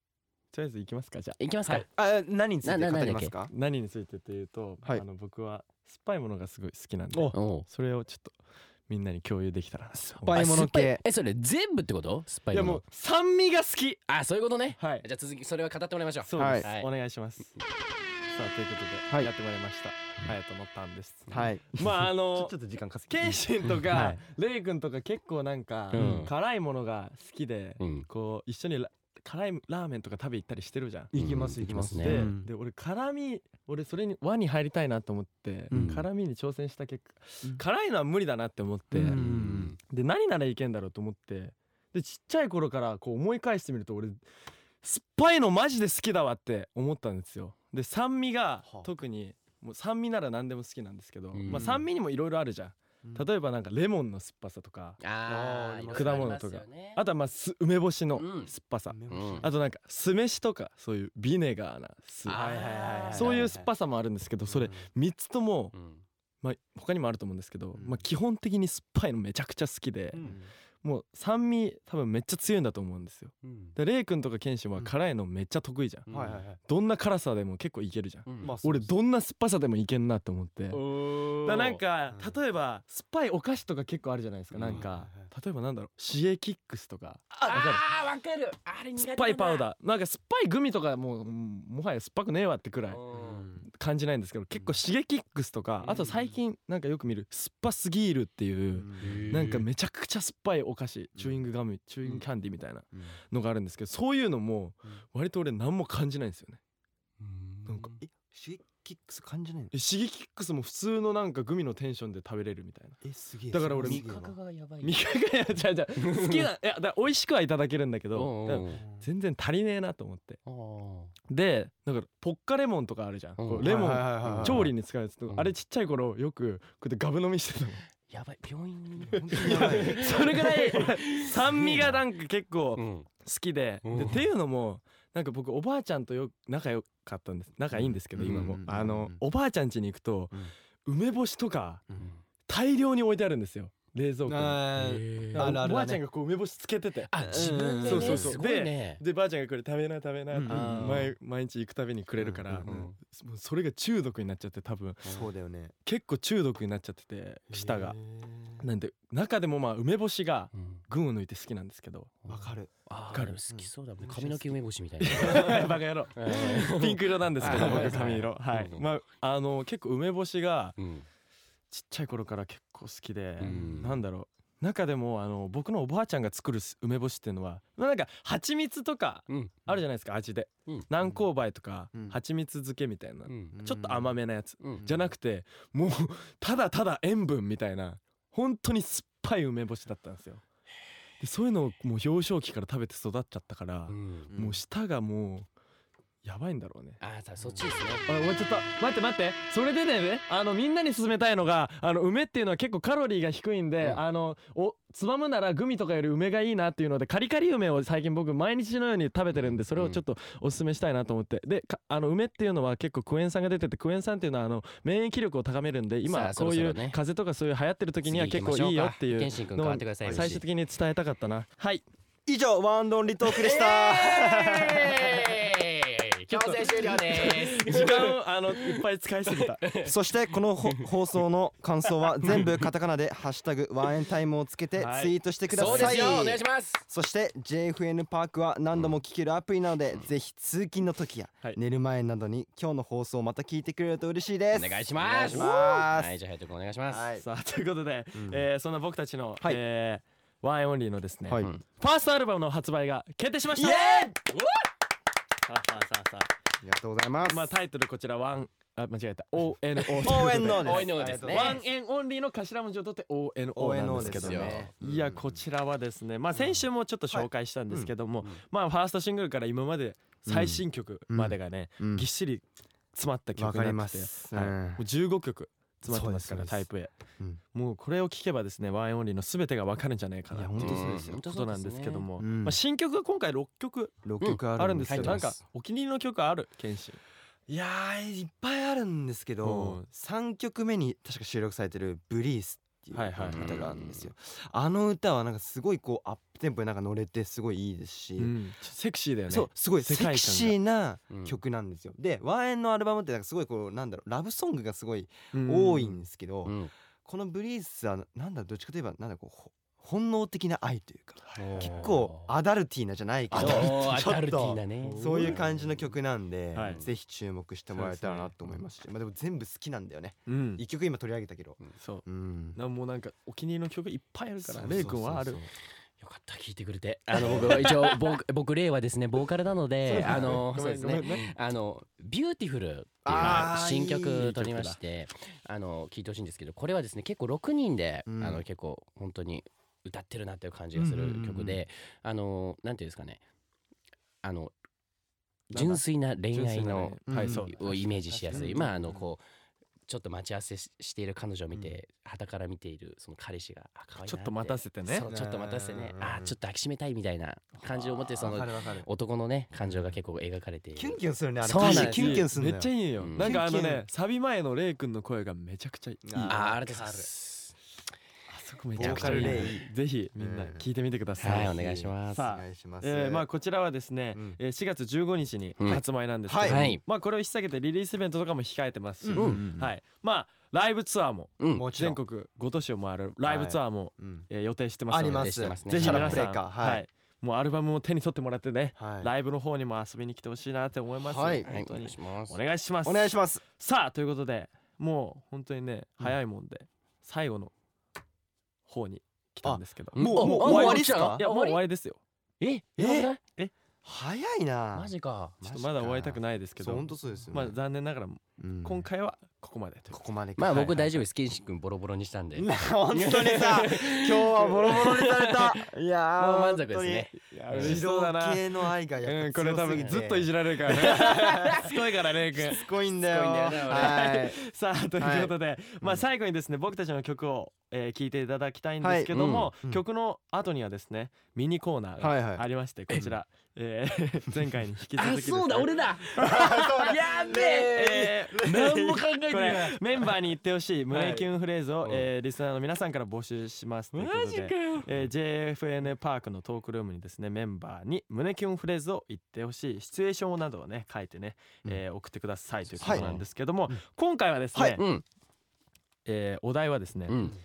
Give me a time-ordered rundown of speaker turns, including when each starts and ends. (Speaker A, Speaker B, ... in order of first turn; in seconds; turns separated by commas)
Speaker A: 0.5-1.4, Speaker B: 1.4-1.9, Speaker C: 1.7-3.5, Speaker B: 2.6-3.3, Speaker A: 3.5-8.3, Speaker B: 7.3-7.7, Speaker A: 8.9-10.4, Speaker B: 10.0-12.8, Speaker C: 10.2-11.0, Speaker A: 12.5-14.0, Speaker B: 14.1-16.9, Speaker A: 14.8-15.0, Speaker A: 16.2-17.5, Speaker C: 16.4-16.7, Speaker A: 18.3-22.6, Speaker C: 21.3-24.2, Speaker A: 23.1-31.1, Speaker B: 25.9-26.3, Speaker C: 25.9-26.3, Speaker B: 27.8-28.1, Speaker C: 31.1-32.5, Speaker B: 31.1-32.3, Speaker A: 31.9-44.2, Speaker C: 35.7-36.0, Speaker B: 35.7-36.0, Speaker C: 38.9-39.7, Speaker B: 39.1-39.8, Speaker A: 44.8-55.0, Speaker B: 51.3-51.7, Speaker C: 51.5-51.9, Speaker B: 55.0-57.0, Speaker C: 55.2-56.4, Speaker A: 55.9-65.7, Speaker B: 58.1-58.5, Speaker C: 58.9-59.5, Speaker B: 59.1-59.5, Speaker B: 62.3-63.5, Speaker C: 62.4-63.7, Speaker C: 64.5-64.8, Speaker B: 65.7-66.0, Speaker A: 66.4-70.3, Speaker C: 67.7-68.0, Speaker C: 70.2-70.5, Speaker A: 70.8-80.8, Speaker B: 73.4-73.8, Speaker B: 76.1-76.4, Speaker C: 76.1-76.6, Speaker B: 78.3-78.5, Speaker C: 78.4-78.9, Speaker B: 80.7-81.8, Speaker A: 81.4-87.8, Speaker C: 82.1-82.3, Speaker B: 84.6-84.8, Speaker C: 84.6-85.3, Speaker B: 87.4-89.7, Speaker A: 89.0-93.0, Speaker B: 92.9-93.5, Speaker C: 93.1-93.7, Speaker A: 93.7-106.6, Speaker B: 95.8-96.1, Speaker C: 98.8-99.6, Speaker B: 99.0-99.6, Speaker C: 101.2-101.4, Speaker B: 107.2-108.0, Speaker C: 107.8-109.7, Speaker A: 109.7-114.0, Speaker C: 113.0-114.3, Speaker B: 113.8-115.0, Speaker A: 114.8-120.4, Speaker B: 116.0-116.5, Speaker B: 118.1-118.8, Speaker B: 120.4-121.1, Speaker A: 121.3-127.8, Speaker B: 123.4-124.7, Speaker C: 123.6-124.7, Speaker B: 125.3-125.5, Speaker B: 128.1-132.0, Speaker C: 129.0-130.8, Speaker A: 129.3-141.8, Speaker C: 131.6-131.9, Speaker B: 132.8-133.1, Speaker B: 133.8-134.2, Speaker C: 137.7-139.2, Speaker B: 138.2-138.5, Speaker A: 142.5-144.7, Speaker C: 144.3-146.0, Speaker B: 144.8-145.6, Speaker A: 145.3-155.1, Speaker B: 147.1-149.0, Speaker C: 147.2-148.4, Speaker C: 150.3-151.1, Speaker B: 150.5-151.1, Speaker C: 152.2-152.9, Speaker B: 152.6-152.9, Speaker C: 155.1-155.7, Speaker A: 155.8-158.0, Speaker C: 157.5-158.6, Speaker A: 158.6-162.2, Speaker B: 160.6-160.8, Speaker B: 162.2-168.8, Speaker C: 162.3-162.7, Speaker C: 163.5-164.6, Speaker A: 165.0-170.8, Speaker C: 167.4-168.2, Speaker B: 170.8-171.1, Speaker A: 171.7-190.4, Speaker B: 173.4-174.0, Speaker C: 173.4-173.8, Speaker B: 179.3-179.5, Speaker C: 181.9-182.2, Speaker B: 183.3-183.6, Speaker C: 183.5-184.2, Speaker C: 184.8-185.1, Speaker A: 191.2-195.5, Speaker B: 193.9-194.3, Speaker C: 194.3-194.6, Speaker A: 196.2-197.0, Speaker B: 197.0-198.4, Speaker C: 197.4-197.8, Speaker A: 198.1-221.8, Speaker B: 209.3-210.0, Speaker B: 216.1-217.0, Speaker B: 218.0-220.4, Speaker C: 220.0-220.3, Speaker C: 222.2-225.3, Speaker B: 223.3-228.8, Speaker A: 226.4-229.7, Speaker B: 229.6-229.9, Speaker C: 229.8-246.2, Speaker A: 234.8-236.3, Speaker B: 235.5-236.8, Speaker B: 244.5-247.1, Speaker A: 245.2-245.7, Speaker C: 246.9-247.2, Speaker A: 247.2-254.1, Speaker C: 248.1-248.4, Speaker C: 251.2-251.5, Speaker B: 253.6-254.6, Speaker A: 255.4-256.3, Speaker C: 256.6-257.5, Speaker A: 257.2-276.9, Speaker C: 260.0-261.6, Speaker B: 260.6-261.6, Speaker C: 263.5-265.4, Speaker B: 263.9-264.7, Speaker C: 266.3-267.9, Speaker C: 270.2-272.1, Speaker C: 273.4-274.8, Speaker C: 275.9-276.7, Speaker A: 277.5-284.0, Speaker C: 280.3-281.2, Speaker B: 280.6-282.1, Speaker C: 282.2-282.6, Speaker C: 284.0-285.3, Speaker B: 284.2-285.3, Speaker A: 284.6-287.0, Speaker C: 287.5-298.4, Speaker A: 289.4-289.9, Speaker A: 292.9-293.6, Speaker B: 293.2-294.1, Speaker A: 298.2-300.6, Speaker C: 299.3-322.6, Speaker B: 301.1-301.4, Speaker A: 305.3-306.0, Speaker B: 306.4-306.7, Speaker A: 311.2-311.9, Speaker B: 311.4-312.3, Speaker B: 313.3-315.7, Speaker A: 313.3-313.7, Speaker A: 314.8-315.4, Speaker A: 316.5-316.8, Speaker A: 317.7-318.3, Speaker A: 320.3-320.6, Speaker A: 321.8-325.4, Speaker C: 324.5-325.5, Speaker B: 326.0-343.2, Speaker C: 327.2-327.8, Speaker A: 329.9-331.3, Speaker C: 329.9-330.4, Speaker C: 333.0-334.4, Speaker A: 333.1-333.6, Speaker A: 334.2-334.8, Speaker C: 338.1-338.4, Speaker C: 340.7-341.6, Speaker B: 344.2-344.5, Speaker A: 345.5-348.8, Speaker B: 345.5-349.2, Speaker C: 347.1-347.8, Speaker C: 348.3-349.1, Speaker B: 349.9-362.3, Speaker C: 351.5-351.8, Speaker A: 354.0-355.1, Speaker C: 355.1-356.4, Speaker C: 358.1-358.9, Speaker C: 360.8-363.8, Speaker A: 361.5-366.4, Speaker B: 363.0-363.3, Speaker C: 366.0-367.1, Speaker B: 366.2-367.5, Speaker A: 368.3-397.5, Speaker C: 368.7-369.6, Speaker B: 368.8-369.6, Speaker C: 370.1-370.6, Speaker B: 371.2-372.3, Speaker C: 371.2-373.3, Speaker C: 374.1-374.4, Speaker C: 375.7-376.7, Speaker B: 376.4-376.8, Speaker C: 379.0-379.7, Speaker B: 379.1-379.4, Speaker B: 381.4-381.7, Speaker C: 381.5-382.0, Speaker C: 383.2-384.3, Speaker C: 384.9-386.8, Speaker B: 385.1-386.3, Speaker C: 388.8-389.1, Speaker C: 391.0-391.5, Speaker B: 391.4-392.4, Speaker C: 392.8-393.4, Speaker A: 398.7-402.0, Speaker C: 399.4-401.2, Speaker B: 400.0-401.6, Speaker B: 402.4-403.2, Speaker C: 402.8-403.1, Speaker C: 403.8-407.6, Speaker B: 404.7-405.4, Speaker A: 405.4-410.0, Speaker C: 408.4-408.9, Speaker C: 409.9-411.0, Speaker B: 410.4-415.6, Speaker C: 412.3-421.7, Speaker B: 416.2-417.8, Speaker A: 417.3-422.6, Speaker B: 421.1-421.6, Speaker C: 422.3-424.4, Speaker B: 422.9-424.1, Speaker A: 423.6-436.3, Speaker C: 425.0-426.0, Speaker C: 428.8-429.8, Speaker B: 429.1-429.5, Speaker C: 432.0-432.4, Speaker B: 435.0-440.0, Speaker C: 436.2-437.6, Speaker A: 436.9-454.8, Speaker C: 438.3-439.0, Speaker C: 440.9-441.3, Speaker B: 443.9-444.9, Speaker C: 452.8-453.8, Speaker B: 452.8-453.2, Speaker C: 454.5-454.8, Speaker B: 454.8-455.0, Speaker A: 456.0-457.2, Speaker B: 457.1-457.4